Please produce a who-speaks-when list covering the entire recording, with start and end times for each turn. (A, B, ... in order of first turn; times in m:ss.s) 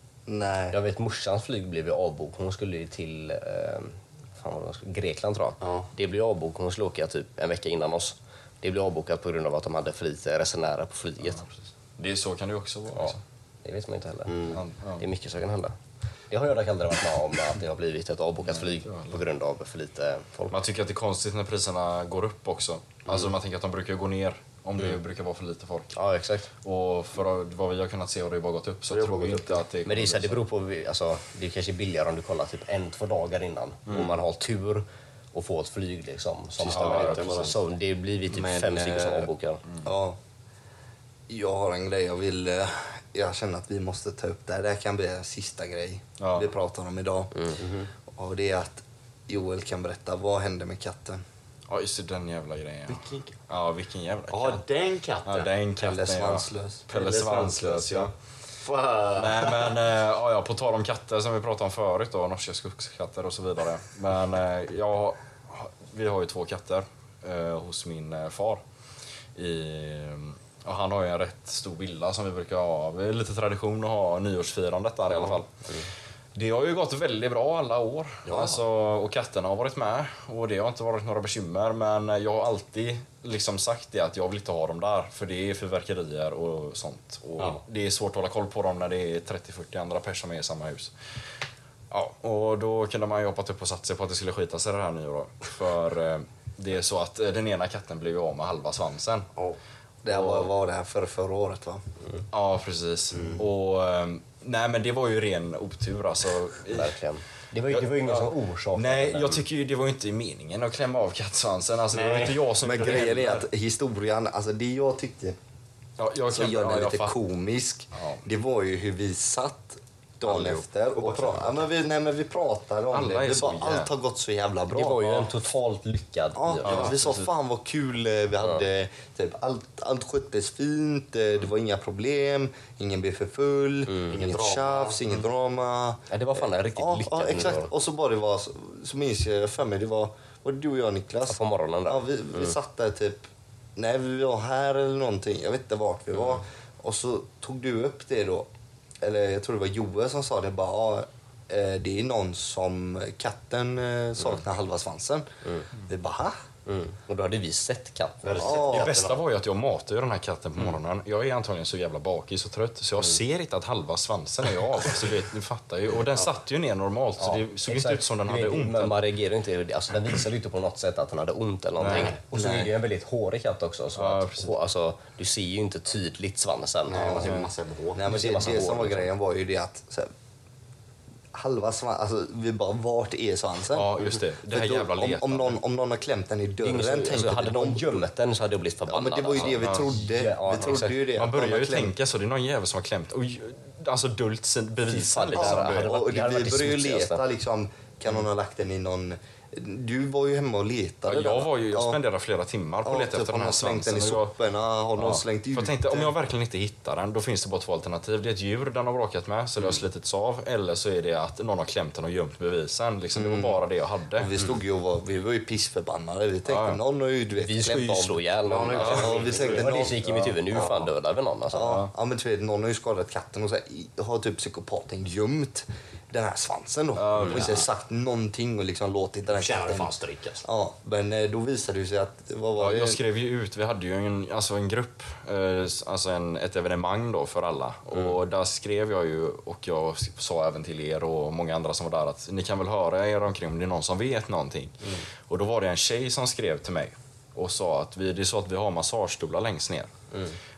0:00.3-0:00.8 A
0:00.7-0:11.5 B
0:05.6-0:05.9 C
0:11.2-0:13.2 D
0:13.0-0:15.8 B
0:14.3-0:14.6 C
0:14.5-0:15.1 D
0:16.3-0:20.6 B
0:18.5-0:19.2 D
0:20.5-0:26.0 D
0:26.0-0:26.5 B
0:26.6-0:30.4 D
0:28.9-0:29.6 C
0:29.8-0:39.6 B
0:33.9-0:34.2 D
0:36.6-0:37.6 C
0:36.6-0:37.6 D
0:38.3-0:39.3 A
0:39.8-0:40.2 A
0:41.3-0:47.3 A
0:46.2-0:46.5 D
0:47.6-0:47.9 C
0:48.1-0:51.2 A
0:51.7-0:54.6 D
0:52.9-0:53.4 C
0:54.3-0:55.5 C
0:55.2-0:58.1 D
0:55.8-0:56.9 A
0:56.9-0:58.1 C
0:58.6-0:59.8 C
0:59.2-1:08.6 D
1:09.4-1:15.6 D
1:16.4-1:30.9 D
1:31.9-1:39.3 D
1:40.0-1:41.8 A
1:40.1-1:40.5 D
1:42.3-1:47.0 D
1:43.2-1:43.4 C
1:46.7-1:49.4 B
1:47.7-1:53.5 D
1:51.9-1:52.5 C
1:52.6-1:55.4 A
1:56.0-1:57.1 D
1:56.3-2:05.0 A
1:57.9-1:58.2 D
2:00.3-2:00.6 D
2:00.9-2:01.7 C
2:02.9-2:03.9 D
2:04.7-2:07.0 B
2:05.0-2:05.3 D
2:06.4-2:28.5 A
2:06.6-2:07.3 D
2:13.9-2:14.2 B
2:14.1-2:15.0 C
2:16.1-2:17.7 B
2:21.3-2:22.6 B
2:29.0-2:35.3 A
2:35.8-2:36.4 A
2:36.7-2:38.9 B
2:38.2-2:39.2 C
2:38.4-2:38.9 A
2:38.4-2:49.0 D
2:47.2-2:57.4 B
2:51.8-2:52.7 D
2:51.9-2:52.2 C
2:54.0-2:54.6 D
2:56.9-2:58.2 C
2:57.2-2:57.5 D
2:58.0-3:00.1 A
2:58.0-2:59.1 B
3:01.3-3:03.9 A
3:03.7-3:05.6 D
3:04.4-3:08.0 A
3:06.6-3:11.1 B
3:08.9-3:12.0 A
3:09.4-3:09.9 D
3:11.1-3:15.9 D
3:14.9-3:17.2 B
3:15.6-3:22.0 A
3:21.1-3:24.3 D
3:22.8-3:26.1 A
3:25.0-3:34.3 D
3:33.2-3:33.6 A
3:34.2-3:40.7 A
3:36.5-3:36.8 D
3:37.3-3:41.8 B
3:38.4-3:40.0 C
3:40.0-3:40.6 D
3:41.5-3:49.9 A
3:41.6-3:41.9 D
3:47.0-3:47.7 D
3:49.3-3:50.5 C
3:50.4-3:53.0 A
3:52.6-4:04.8 D
4:05.3-4:09.9 D
4:10.1-4:10.4 B